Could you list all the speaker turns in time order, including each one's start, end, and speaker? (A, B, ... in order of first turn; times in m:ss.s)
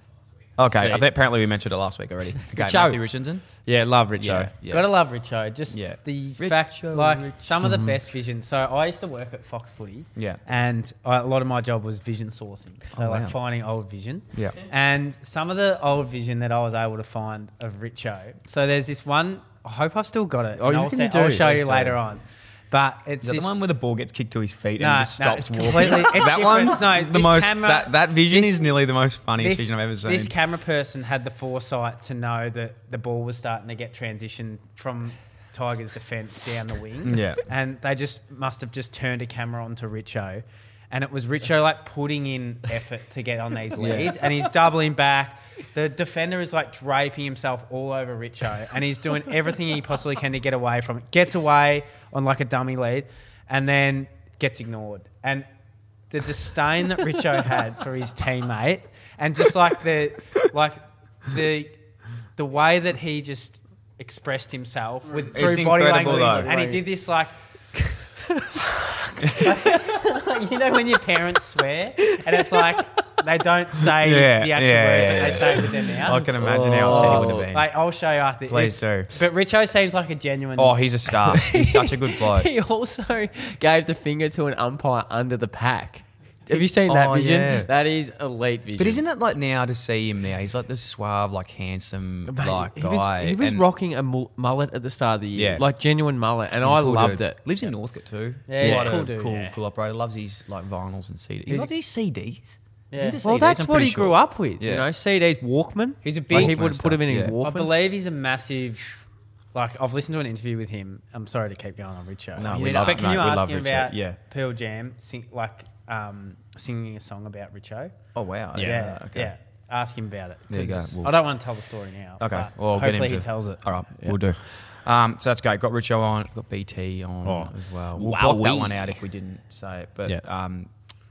0:00.6-0:03.4 A
0:00.7-0:01.1 B
0:02.5-0:03.0 B
0:03.6-0:04.5 B
0:04.2-0:04.9 A
0:04.6-0:23.5 C
0:05.7-0:07.5 A
0:07.6-0:08.0 B
0:12.9-0:13.3 A
0:20.6-0:22.0 B
0:23.2-0:30.3 A
0:24.8-0:28.6 C
0:29.4-0:55.4 C
0:37.0-0:37.4 A
0:43.8-0:44.2 A
0:56.1-1:01.8 C
1:02.4-1:07.3 C
1:05.1-1:06.8 B
1:05.3-1:06.5 A
1:08.3-1:09.9 B
1:09.2-1:09.5 A
1:09.4-1:20.8 C
1:12.0-1:12.8 B
1:14.0-1:17.7 A
1:16.4-1:17.5 B
1:18.5-1:19.1 A
1:20.6-1:22.5 A
1:21.2-1:29.0 B
1:26.5-1:27.7 A
1:28.8-1:33.6 A
1:32.3-1:37.4 B
1:35.3-1:35.6 A
1:36.6-1:44.9 A
1:38.5-1:39.6 C
1:38.6-1:39.0 B
1:42.9-1:43.2 C
1:43.2-1:47.7 B
1:46.0-1:46.6 C
1:46.3-1:47.3 A
1:47.4-1:58.0 C
1:52.4-1:54.2 A
1:52.6-1:53.2 B
1:58.1-1:59.3 A
1:58.5-1:58.9 B
1:58.6-2:03.6 C
2:00.5-2:01.2 A
2:02.2-2:10.7 A
2:07.2-2:08.9 B